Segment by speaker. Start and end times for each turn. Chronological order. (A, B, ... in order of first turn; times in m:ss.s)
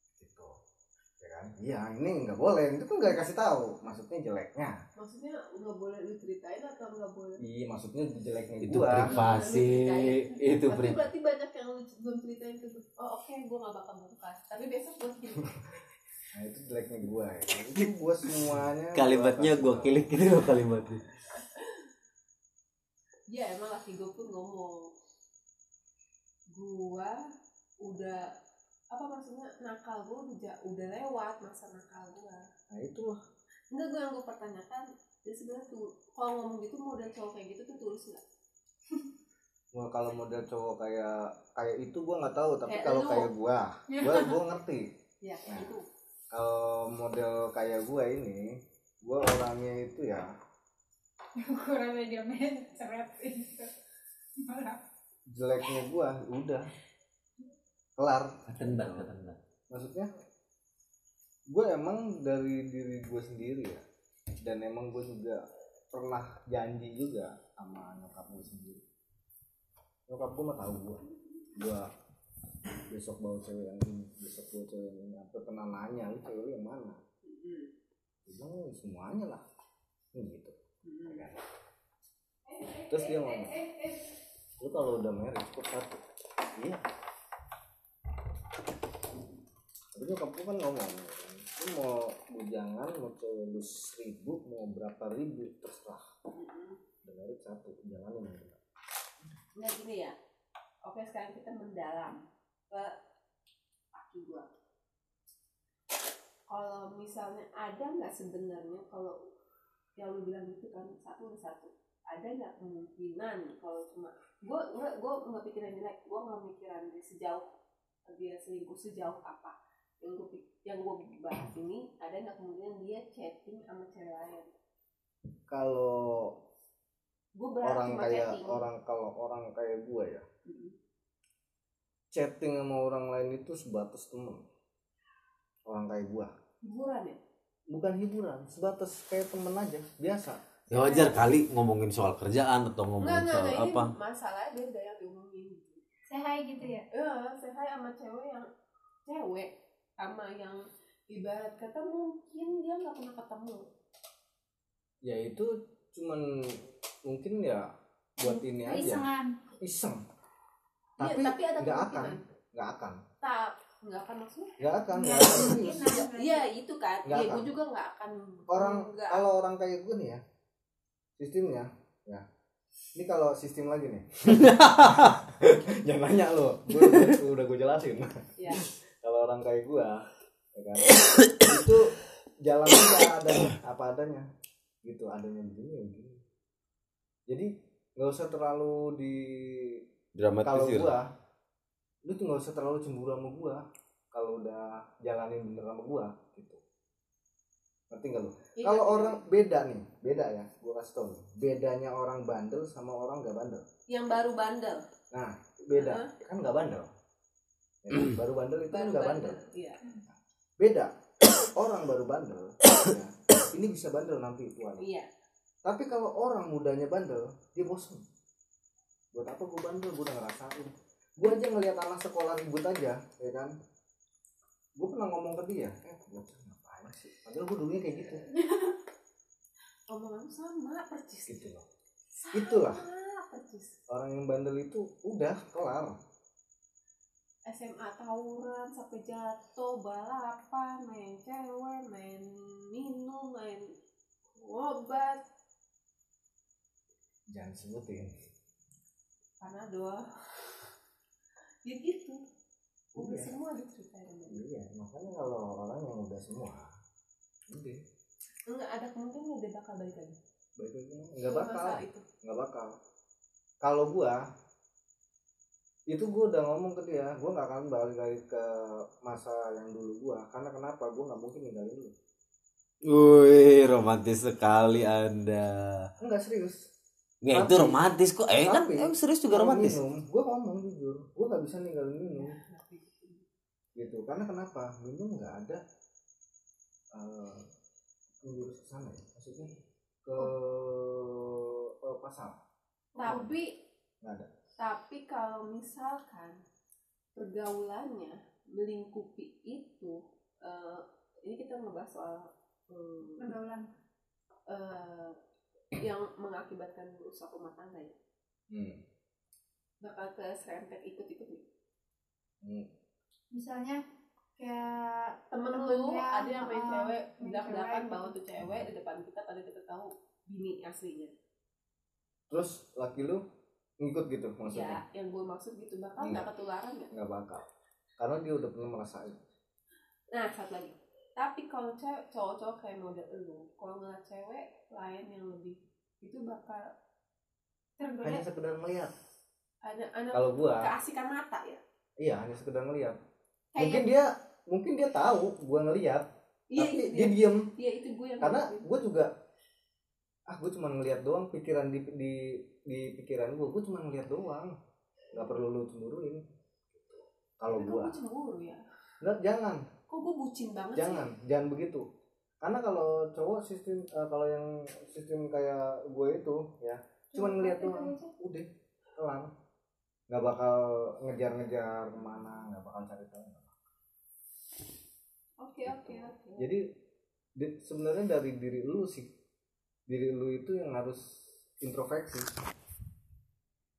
0:00.2-0:00.5 A
0:01.2-0:04.7 A
0:05.0-0:07.4 B
0:07.4-0:09.2 A
0:08.6-0:11.0 C
0:09.0-0:15.5 B
0:16.3-0:20.1 A
0:18.9-0:21.0 C
0:23.3-0:24.9 B
0:26.5-0:27.2 B
0:27.8-0:28.2 B
0:28.9-0:32.4 B
0:32.7-0:33.2 A
0:33.7-0:38.2 B
0:39.7-0:44.8 A
0:42.7-0:43.3 B
0:43.9-0:44.3 D
0:45.2-0:45.8 B
0:45.5-0:45.8 A
0:46.3-0:48.4 A
0:49.0-0:50.3 A
0:51.4-0:53.7 D
0:54.4-0:54.8 D
0:55.3-0:56.7 A
0:58.0-0:59.1 A
0:58.5-0:59.4 C
0:59.7-1:00.1 A
1:01.5-1:03.8 A
1:04.4-1:05.4 A
1:05.9-1:08.8 A
1:10.1-1:11.0 A
1:11.6-1:11.8 A
1:12.9-1:17.0 A
1:17.2-1:17.7 B
1:18.3-1:19.4 A
1:20.1-1:20.5 A
1:20.8-1:21.3 B
1:21.0-1:21.4 A
1:22.5-1:23.0 B
1:22.9-1:23.6 A
1:23.6-1:24.0 B
1:24.6-1:26.0 A
1:26.6-1:26.8 A
1:30.0-1:36.0 A
1:36.3-1:36.8 B
1:37.0-1:38.6 A
1:39.6-1:40.1 B
1:40.8-1:42.2 B
1:43.9-1:44.5 B
1:46.5-1:49.2 B
1:50.0-1:57.5 B
1:58.1-2:04.5 B
2:05.5-2:06.3 A
2:07.4-2:08.6 B
2:07.6-2:10.2 A
2:10.4-2:10.7 B
2:12.1-2:14.4 A
2:15.7-2:16.3 A
2:16.6-2:17.2 B
2:17.7-2:20.4 A
2:20.7-2:23.9 C
2:20.7-2:21.2 D
2:23.0-2:25.8 B
2:26.1-2:26.8 D
2:26.9-2:28.5 B
2:29.0-2:29.5 B
2:30.0-2:33.6 B
2:35.0-2:36.2 A
2:37.1-2:37.7 A
2:38.2-2:39.1 A
2:38.2-2:39.3 D
2:39.6-2:40.0 A
2:41.0-2:42.2 B
2:41.0-2:43.0 A
2:43.2-2:44.6 B
2:44.6-2:45.9 A
2:44.9-2:46.4 D
2:45.3-2:49.2 B
2:47.0-2:47.5 A
2:48.5-2:50.2 A
2:51.2-2:52.2 A
2:53.0-2:58.1 A
2:54.5-2:55.1 C
2:58.4-2:58.6 B
2:59.0-3:00.0 A
3:00.6-3:04.2 A
3:04.8-3:06.2 A
3:07.3-3:09.8 A
3:10.1-3:10.9 C
3:10.4-3:11.1 A
3:12.0-3:16.6 A
3:17.9-3:23.6 A
3:18.6-3:19.2 B
3:23.9-3:24.8 B
3:25.1-3:26.9 A
3:25.7-3:26.1 B
3:27.8-3:29.4 A
3:28.7-3:29.8 B
3:30.6-3:34.8 A
3:34.8-3:35.1 B
3:35.6-3:38.0 A
3:39.1-3:43.5 A
3:44.8-3:48.2 A
3:49.9-3:51.4 B
3:51.3-3:51.6 A
3:52.2-3:53.7 B
3:52.3-3:52.8 A
3:53.9-3:56.0 A
3:57.5-4:03.6 B
4:04.4-4:05.2 B
4:07.3-4:08.1 A
4:09.4-4:10.6 B
4:11.7-4:12.2 B
4:13.0-4:13.3 A
4:13.0-4:14.4 B
4:14.3-4:16.7 A
4:17.5-4:17.8 A
4:18.5-4:20.2 B
4:20.6-4:22.7 A
4:21.2-4:22.0 B
4:23.6-4:24.2 A
4:25.9-4:31.9 A
4:32.9-4:35.9 C
4:36.0-4:36.6 A
4:37.2-4:39.8 C
4:37.3-4:37.8 A
4:38.4-4:42.3 A
4:42.2-4:43.2 B
4:43.8-4:45.6 A
4:46.9-4:47.4 A
4:48.2-4:49.5 A
4:50.0-4:52.4 A
4:53.0-4:53.5 B
4:53.0-4:53.3 A
4:54.0-4:54.3 A
4:54.6-4:56.4 B
4:57.1-5:03.3 B
5:03.2-5:03.7 D
5:04.5-5:05.2 B
5:05.8-5:07.9 B
5:08.5-5:08.8 A
5:09.8-5:11.4 B
5:12.4-5:12.7 A
5:13.3-5:13.8 D
5:14.4-5:18.1 D
5:15.3-5:21.1 B
5:22.3-5:23.2 A
5:23.8-5:24.8 A
5:24.4-5:26.9 B
5:26.0-5:26.3 A
5:26.9-5:27.4 A
5:28.0-5:29.2 A
5:30.1-5:36.6 B
5:37.8-5:38.2 D
5:38.0-5:38.9 A
5:39.6-5:41.6 B
5:40.1-5:40.7 A
5:42.0-5:43.0 A
5:43.5-5:43.8 B
5:43.6-5:47.5 A
5:46.5-5:48.7 B
5:48.2-5:49.1 A
5:50.3-5:54.5 A
5:55.1-5:57.9 A
5:57.5-5:58.6 B
5:59.0-5:59.6 A
5:59.9-6:01.1 B
6:00.7-6:01.8 A
6:02.4-6:08.5 A
6:07.1-6:08.0 D
6:09.0-6:09.3 A
6:10.1-6:13.5 A
6:15.4-6:16.5 B
6:15.6-6:16.6 A
6:17.4-6:19.1 A
6:19.9-6:21.0 A
6:21.6-6:22.3 A